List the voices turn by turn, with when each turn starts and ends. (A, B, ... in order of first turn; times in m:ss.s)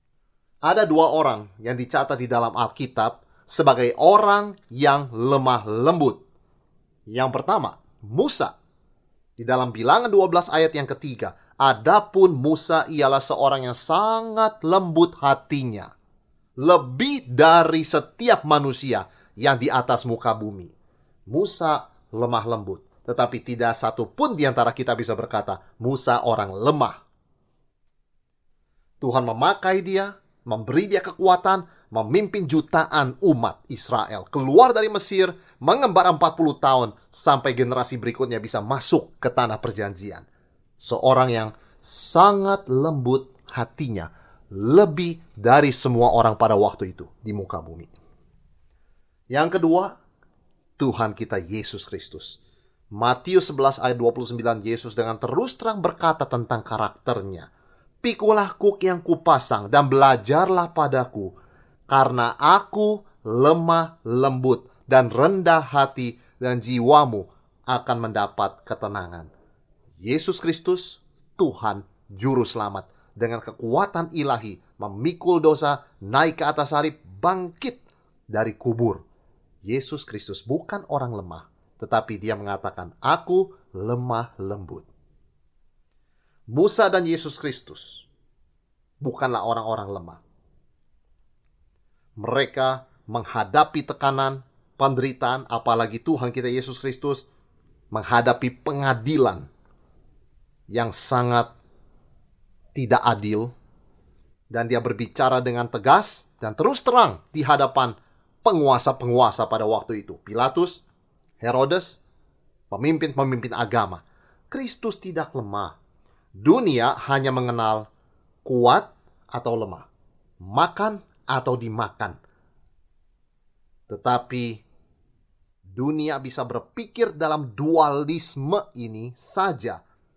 0:00.6-0:06.2 A
0:07.1-0:08.5 A
0:09.4-0:15.9 A
0:16.6-0:20.7 A
0:21.3-0:27.0 A
0:29.0-0:40.3 A
0:40.8-0:47.9 A
0:49.3-0:49.9 A
0:50.8-0:52.4 A
0:52.9-0:57.5 A
0:58.0-1:01.3 A
1:01.9-1:09.3 A
1:10.0-1:17.8 A
1:18.3-1:19.0 A
1:19.6-1:24.9 A
1:26.5-1:28.1 A
1:29.0-1:30.2 A
1:32.2-1:37.3 A
1:37.9-1:39.5 A
1:40.7-1:41.5 A
1:42.8-1:43.5 A
1:44.5-1:50.8 A
1:51.4-1:52.0 A
1:52.7-1:55.8 A
1:56.4-1:57.9 A
1:58.4-1:59.9 A
2:00.4-2:02.2 A
2:03.9-2:04.6 A
2:05.8-2:09.8 A